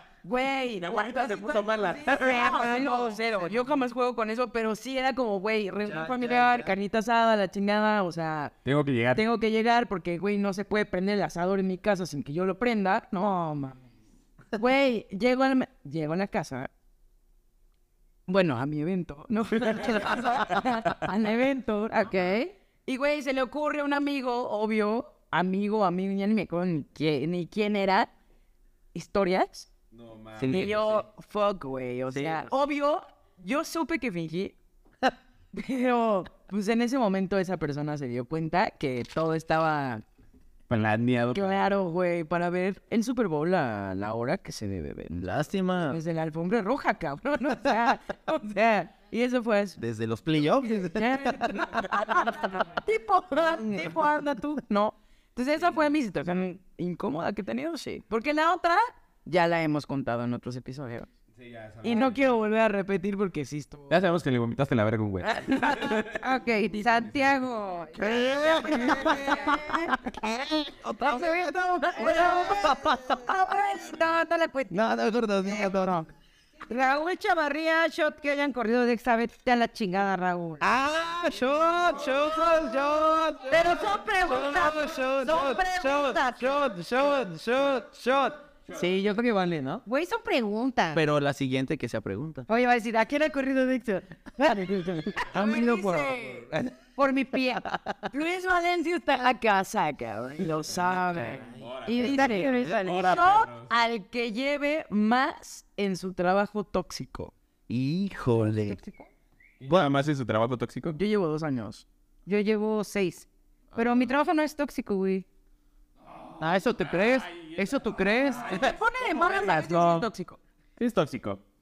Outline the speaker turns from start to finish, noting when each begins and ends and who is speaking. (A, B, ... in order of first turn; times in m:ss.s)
0:00.2-0:08.5 A
0:00.9-0:02.8 B
0:05.8-0:06.7 C
0:08.6-0:09.2 B
0:09.1-0:13.8 A
0:14.6-0:16.7 A
0:18.3-0:28.1 A
0:28.9-0:29.7 A
0:29.9-0:30.7 B
0:30.3-0:31.0 C
0:30.5-0:34.5 A
0:32.1-0:32.5 C
0:35.5-0:40.0 A
0:40.7-0:41.5 B
0:41.3-0:45.3 A
0:45.2-0:46.0 C
0:45.9-0:49.8 A
0:49.8-0:52.3 C
0:51.0-1:01.1 A
1:01.5-1:02.0 B
1:01.8-1:03.9 A
1:03.9-1:06.0 B
1:05.2-1:06.0 A
1:06.0-1:08.0 D
1:07.9-1:13.2 C
1:08.8-1:09.9 D
1:11.0-1:14.7 D
1:14.7-1:16.1 C
1:16.7-1:20.6 D
1:20.6-1:29.8 C
1:23.5-1:26.4 D
1:29.8-1:31.0 D
1:30.9-1:32.5 C
1:32.5-1:35.3 D
1:35.1-1:36.9 C
1:35.3-1:36.4 A
1:37.0-1:37.6 D
1:37.4-1:38.0 C
1:38.1-1:42.5 A
1:41.9-1:43.1 D
1:41.9-1:43.6 B
1:43.0-1:47.3 A
1:47.7-1:48.8 C
1:48.7-1:49.1 D
1:49.6-1:51.0 B
1:50.9-1:51.8 A
1:52.2-1:55.2 D
1:56.4-1:58.8 C
1:58.5-2:00.4 A
1:59.2-2:00.1 B
2:00.8-2:01.4 B